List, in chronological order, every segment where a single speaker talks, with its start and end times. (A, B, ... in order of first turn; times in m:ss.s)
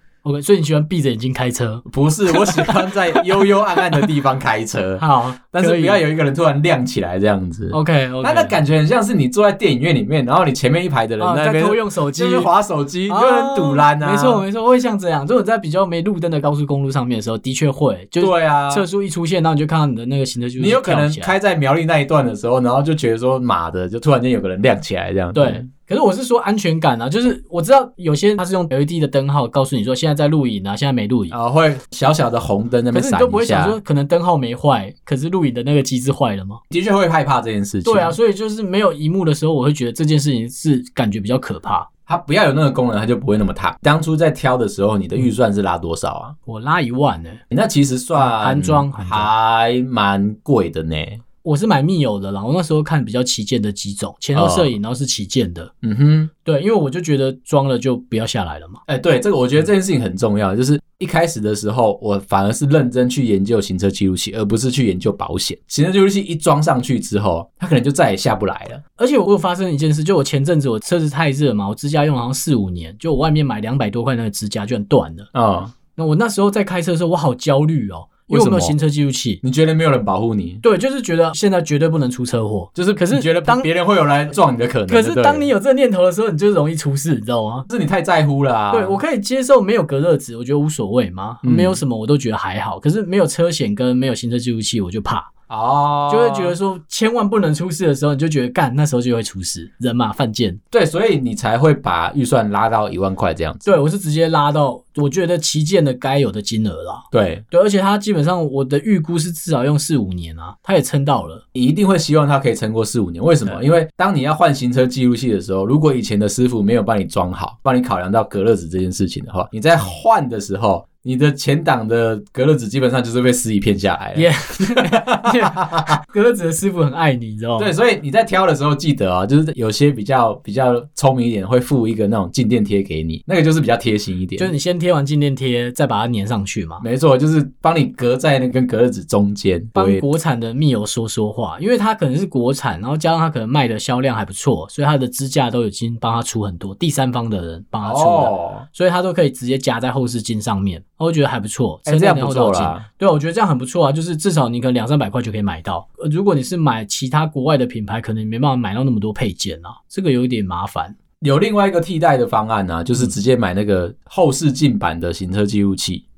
0:00.2-0:04.1 A
0:01.9-0:14.4 B
0:05.0-0:06.0 A
0:07.7-0:08.6 A
0:11.2-0:12.5 A
0:13.1-0:21.3 A
0:18.2-0:18.9 B
0:20.6-0:25.6 B
0:25.3-0:31.3 A
0:31.3-0:33.8 B
0:32.9-0:36.6 A
0:36.7-0:38.2 B
0:37.8-0:41.9 A
0:42.1-0:46.3 B
0:46.4-0:47.4 A
0:47.5-0:51.2 B
0:48.2-0:49.3 A
0:51.4-0:55.7 A
0:54.3-0:54.7 B
0:55.8-0:56.3 B
0:56.4-0:58.8 A
0:58.9-1:08.8 B
1:09.0-1:15.3 A
1:15.3-1:15.7 B
1:16.0-1:19.4 A
1:18.3-1:18.8 B
1:19.4-1:20.6 B
1:20.6-1:23.7 A
1:22.8-1:25.5 B
1:24.9-1:27.7 A
1:27.7-1:29.0 B
1:28.7-1:35.3 A
1:31.4-1:31.8 B
1:35.5-1:36.6 B
1:36.1-1:40.6 A
1:40.7-1:43.8 B
1:43.6-1:51.4 A
1:47.1-1:47.4 B
1:51.5-2:06.0 B
2:04.1-2:07.7 A
2:07.6-2:14.5 B
2:14.4-2:16.8 A
2:16.8-2:20.0 B
2:19.8-2:41.0 A
2:27.8-2:28.6 B
2:31.9-2:32.8 B
2:41.2-2:46.0 B